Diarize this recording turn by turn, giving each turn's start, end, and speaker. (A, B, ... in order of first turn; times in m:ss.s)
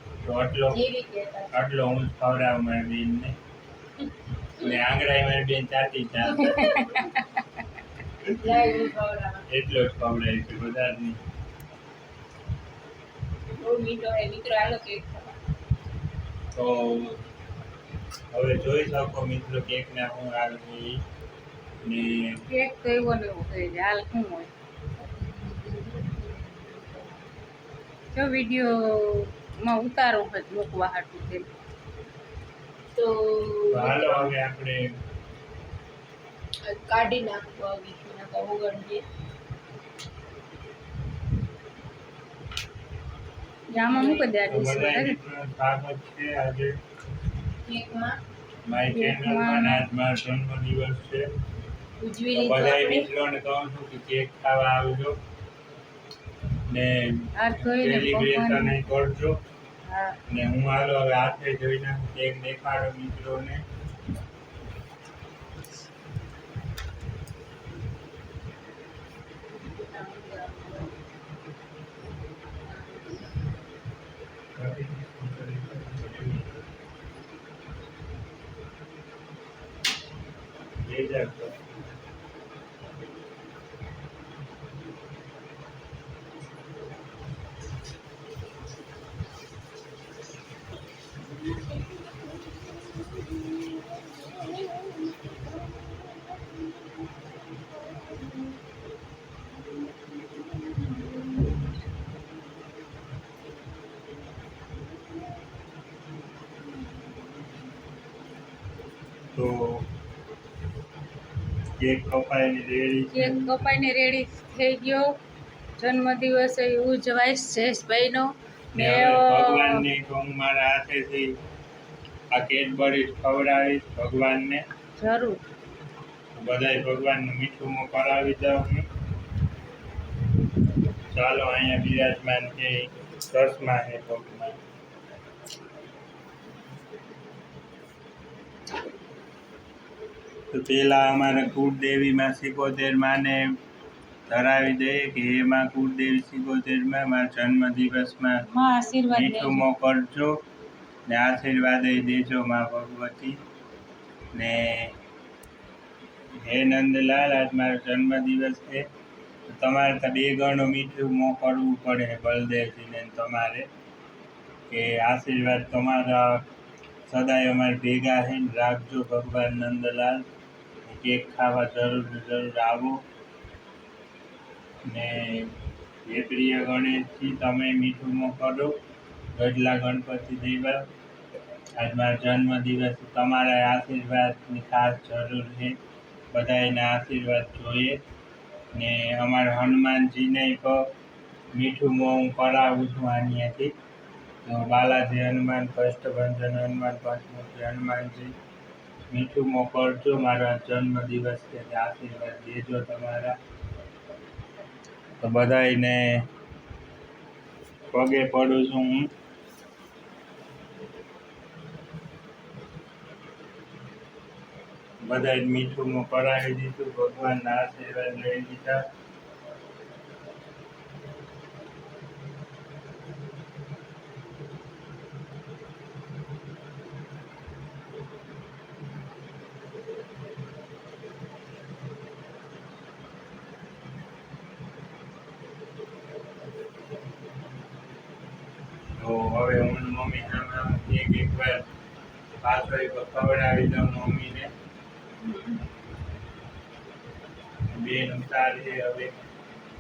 0:00.2-0:00.8 A
0:00.7-0:01.6 B
0:01.5-0:03.4 A
0:04.6-0:06.7 A
0:06.4-0:07.3 C
0:06.5-0:06.9 B
0:08.3-0:09.5 B
0:09.5-0:11.2 A
0:13.6-0:15.4 B
0:16.5-0:17.2 A
0:18.3-0:21.0 A
0:21.8-0:22.4 A
0:22.5-0:24.5 C
0:25.0-0:27.2 B
0:28.1-0:31.5 C
0:33.0-0:34.3 B
0:33.7-0:34.8 A
0:36.7-0:39.0 B
0:43.7-0:45.2 C
0:43.8-0:44.2 B
0:44.4-0:46.8 A
0:47.6-0:48.2 B
0:48.7-0:51.3 A
0:48.9-0:49.8 C
0:52.0-0:53.1 B
0:52.3-0:55.2 A
0:56.7-0:59.4 A
0:57.4-0:58.8 C
0:59.9-1:00.2 C
1:00.3-1:03.6 A
1:09.7-1:10.9 C
1:12.7-1:13.3 C
1:14.6-1:16.6 A
1:20.8-1:21.6 A
1:49.3-1:49.9 A
1:51.8-1:53.6 A
1:53.1-1:55.1 C
1:55.8-1:59.8 C
1:58.8-2:01.4 A
2:02.3-2:04.7 A
2:05.0-2:05.4 C
2:06.4-2:08.9 A
2:11.1-2:14.6 A
2:20.5-2:23.5 A
2:24.3-2:28.4 A
2:28.5-2:29.7 C
2:29.1-2:30.4 A
2:31.1-2:33.4 A
2:34.3-2:35.0 A
2:36.4-2:38.8 A
2:39.5-2:43.7 A
2:44.7-2:46.4 A
2:47.1-2:50.3 A
2:50.9-2:53.0 A
2:54.9-2:55.5 A
2:56.0-2:58.8 A
2:59.4-3:00.9 A
3:01.8-3:05.8 A
3:06.3-3:08.0 A
3:08.7-3:10.9 A
3:11.5-3:13.7 A
3:14.4-3:18.3 A
3:19.1-3:23.4 A
3:25.2-3:26.3 A
3:27.9-3:29.1 A
3:35.1-3:38.8 A
3:59.0-4:01.7 A
4:02.4-4:04.5 A
4:05.2-4:05.6 B
4:07.7-4:09.2 A